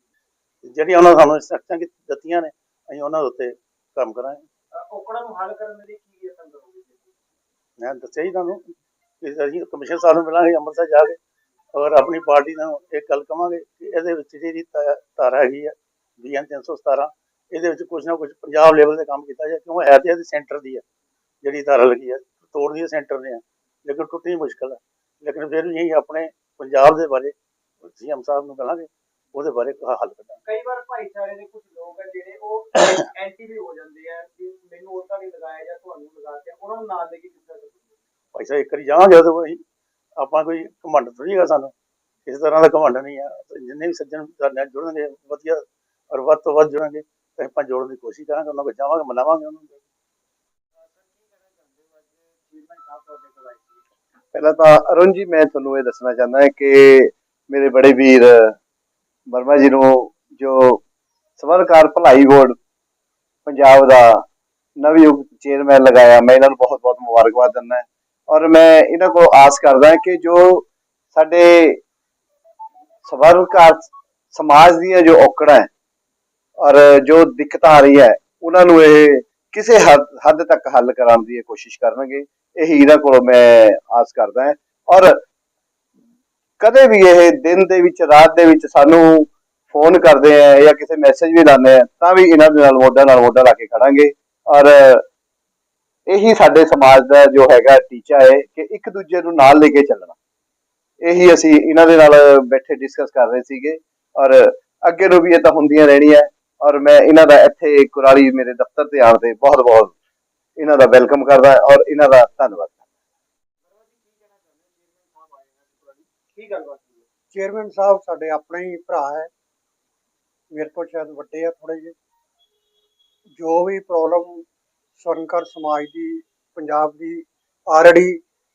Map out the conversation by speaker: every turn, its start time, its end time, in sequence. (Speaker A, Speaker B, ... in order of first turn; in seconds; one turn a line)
Speaker A: 0.6-4.4
Speaker B: 4.7-7.1
Speaker A: 7.8-11.2
Speaker A: 11.7-20.8
Speaker A: 21.4-30.4
Speaker B: 30.4-38.0
Speaker A: 38.3-39.6
Speaker A: 40.2-41.7
Speaker A: 42.2-49.8
Speaker B: 50.8-53.8
Speaker C: 54.3-58.6
Speaker C: 59.3-60.8
Speaker C: 61.4-62.6
Speaker C: 63.5-64.2
Speaker C: 64.8-71.8
Speaker C: 73.0-75.7
Speaker C: 76.6-85.2
Speaker C: 86.6-95.0
Speaker C: 96.1-100.2
Speaker C: 101.0-109.9
Speaker C: 110.6-112.9
Speaker B: 113.6-117.0
Speaker D: 117.3-119.3
Speaker D: 120.5-121.9
Speaker D: 123.4-124.4
Speaker D: 125.0-128.2